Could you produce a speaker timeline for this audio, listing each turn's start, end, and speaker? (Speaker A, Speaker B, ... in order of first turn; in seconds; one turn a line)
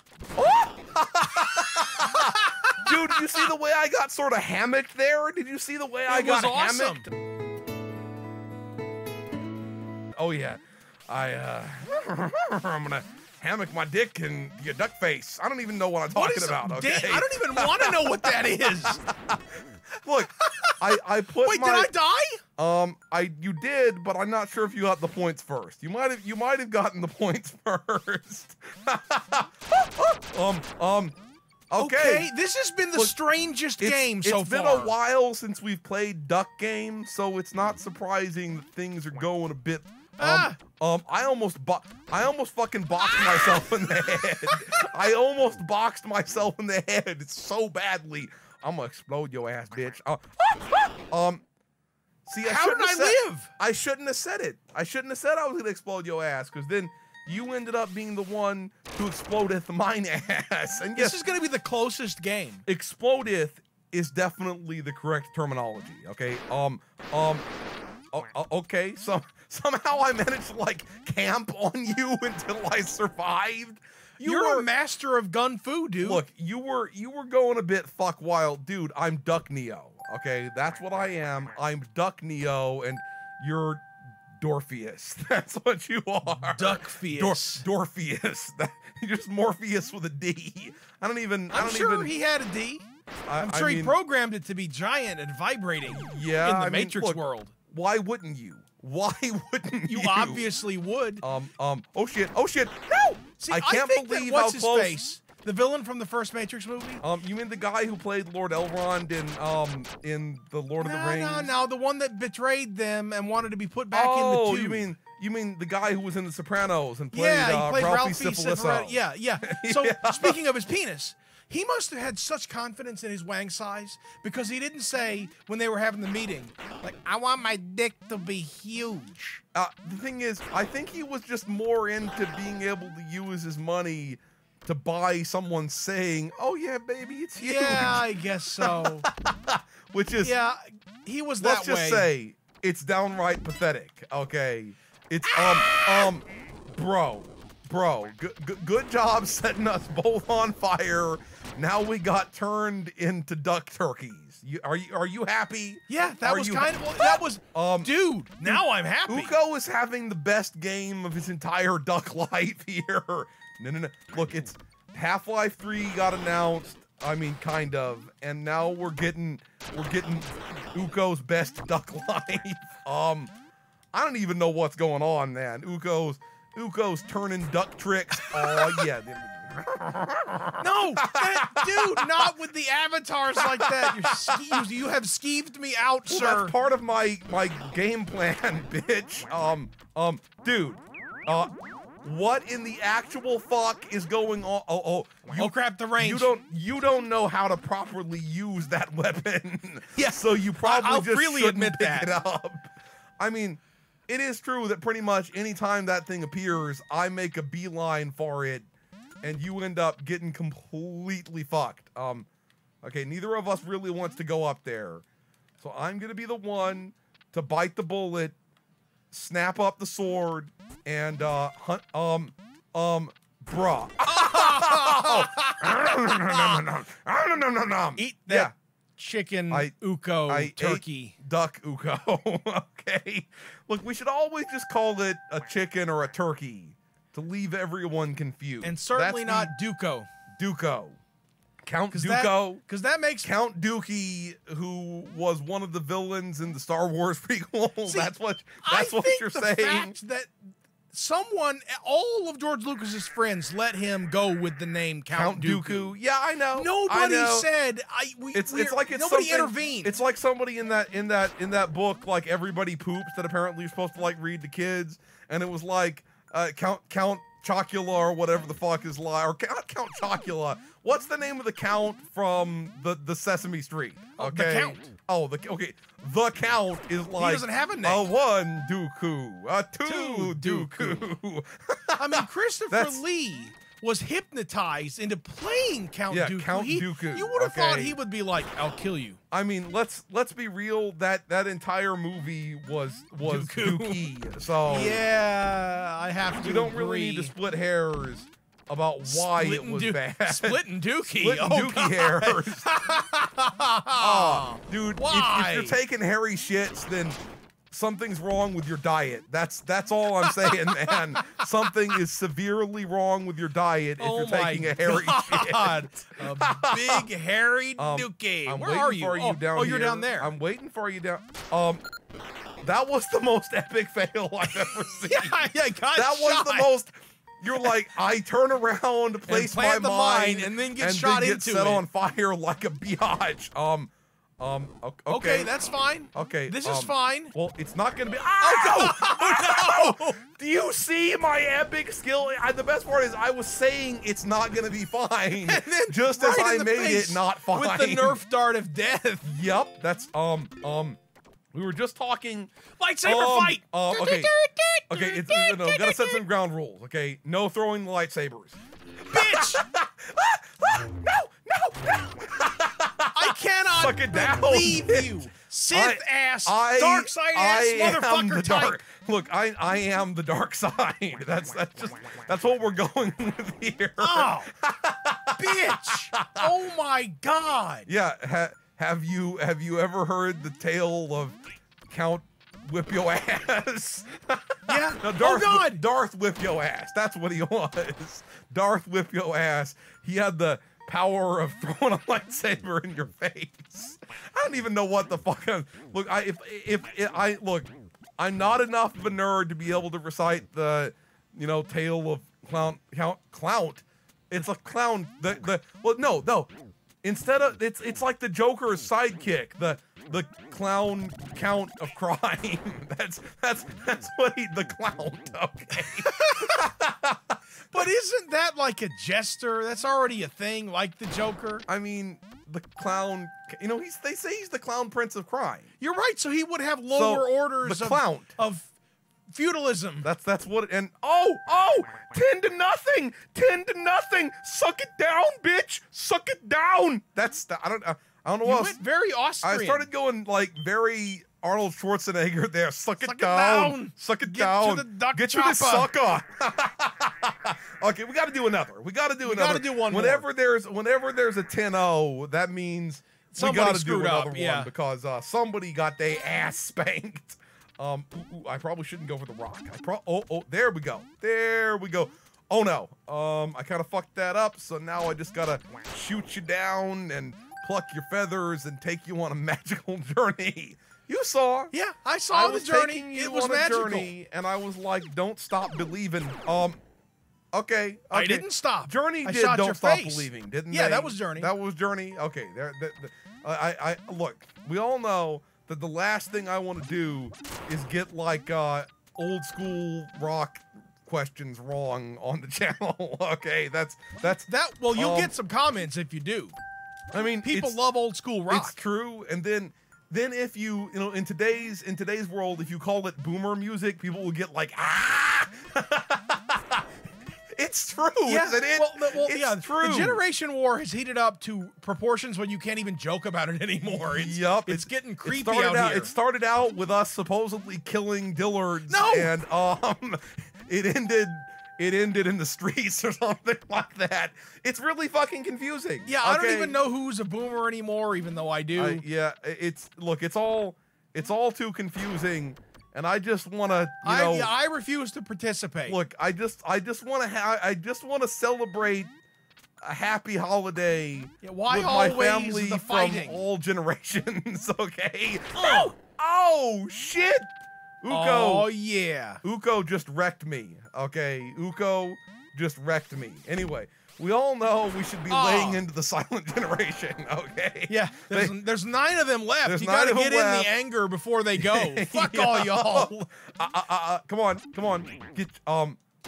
Speaker A: 0.3-7.1
Speaker B: 2.0-3.5
Speaker B: 6.1-7.1
Speaker A: 10.2-21.9
Speaker B: 16.1-19.0
Speaker B: 20.4-22.4
Speaker A: 22.6-31.1
Speaker A: 31.7-32.3
Speaker B: 31.8-34.9
Speaker A: 33.8-51.4
Speaker B: 40.2-40.6
Speaker B: 43.0-44.8
Speaker A: 52.2-61.2
Speaker B: 52.4-53.5
Speaker B: 61.0-62.6
Speaker A: 62.6-67.4
Speaker A: 68.1-74.7
Speaker B: 74.2-76.2
Speaker A: 76.0-92.1
Speaker B: 86.3-87.6
Speaker B: 91.5-92.9
Speaker A: 93.3-94.0
Speaker B: 93.4-97.5
Speaker A: 95.9-100.5
Speaker B: 99.9-101.2
Speaker A: 101.2-105.0
Speaker B: 103.4-107.0
Speaker A: 107.0-111.5
Speaker B: 110.8-114.9
Speaker A: 113.9-120.4
Speaker B: 117.1-129.4
Speaker A: 129.5-138.0
Speaker B: 137.3-139.0
Speaker A: 138.6-140.3
Speaker B: 140.2-142.1
Speaker A: 141.4-157.9
Speaker B: 145.3-146.2
Speaker B: 155.9-159.3
Speaker A: 158.4-173.3
Speaker A: 173.9-182.1
Speaker B: 180.6-186.5
Speaker A: 183.4-184.6
Speaker A: 186.1-208.7
Speaker B: 195.3-196.3
Speaker B: 200.0-202.1
Speaker A: 209.2-212.3
Speaker A: 212.8-215.0
Speaker A: 215.6-218.3
Speaker A: 219.1-228.5
Speaker B: 224.1-226.6
Speaker B: 227.9-231.1
Speaker A: 230.3-239.5
Speaker B: 238.6-240.1
Speaker A: 240.4-241.0
Speaker A: 241.6-242.6
Speaker B: 241.9-243.3
Speaker A: 243.2-249.9
Speaker B: 247.8-250.3
Speaker B: 250.9-255.9
Speaker A: 255.1-257.5
Speaker B: 256.5-259.9
Speaker A: 258.3-283.0
Speaker B: 274.2-274.9
Speaker B: 277.2-278.0
Speaker B: 279.9-281.1
Speaker B: 282.0-289.2
Speaker A: 286.1-288.0
Speaker A: 289.3-295.0
Speaker B: 293.2-294.0
Speaker B: 294.6-297.3
Speaker A: 296.4-302.6
Speaker B: 299.0-305.8
Speaker A: 304.0-307.2
Speaker A: 307.7-317.0
Speaker B: 310.2-311.2
Speaker B: 314.0-320.3
Speaker A: 317.8-321.8
Speaker A: 322.6-335.5
Speaker B: 324.6-326.7
Speaker B: 329.2-331.8
Speaker B: 335.1-337.3
Speaker A: 336.1-348.2
Speaker B: 338.4-340.2
Speaker B: 345.3-349.2
Speaker A: 349.2-351.0
Speaker A: 351.5-352.5
Speaker B: 352.8-356.2
Speaker A: 353.0-354.3
Speaker A: 354.9-363.1
Speaker B: 359.1-359.6
Speaker B: 363.1-368.8
Speaker A: 363.7-365.1
Speaker A: 365.7-376.4
Speaker B: 374.0-374.5
Speaker B: 375.4-377.9
Speaker A: 377.9-381.4
Speaker A: 381.9-406.5
Speaker B: 384.7-385.8
Speaker A: 407.0-417.4
Speaker B: 416.0-416.6
Speaker B: 417.7-421.6
Speaker A: 421.7-425.7
Speaker B: 425.8-428.7
Speaker A: 426.9-428.3
Speaker B: 429.3-430.1
Speaker A: 430.0-438.8
Speaker B: 438.4-439.9
Speaker A: 439.4-471.7
Speaker B: 443.0-445.9
Speaker B: 449.2-450.2
Speaker B: 453.3-454.7
Speaker B: 471.7-474.1
Speaker A: 472.3-476.8
Speaker A: 477.5-495.3
Speaker B: 478.1-481.5
Speaker B: 494.5-496.6
Speaker A: 497.1-497.8
Speaker B: 497.4-498.8
Speaker A: 498.5-506.8
Speaker A: 507.6-510.2
Speaker B: 508.2-516.1
Speaker A: 513.8-526.8
Speaker B: 518.9-519.3
Speaker B: 526.0-529.0
Speaker A: 528.7-534.5
Speaker B: 534.0-536.0
Speaker A: 535.9-539.1
Speaker A: 539.8-548.7
Speaker B: 541.4-543.4
Speaker B: 545.5-545.9
Speaker B: 548.1-549.4
Speaker A: 549.4-558.5
Speaker B: 555.3-555.8
Speaker B: 557.9-563.1
Speaker A: 559.6-560.7
Speaker A: 561.5-566.0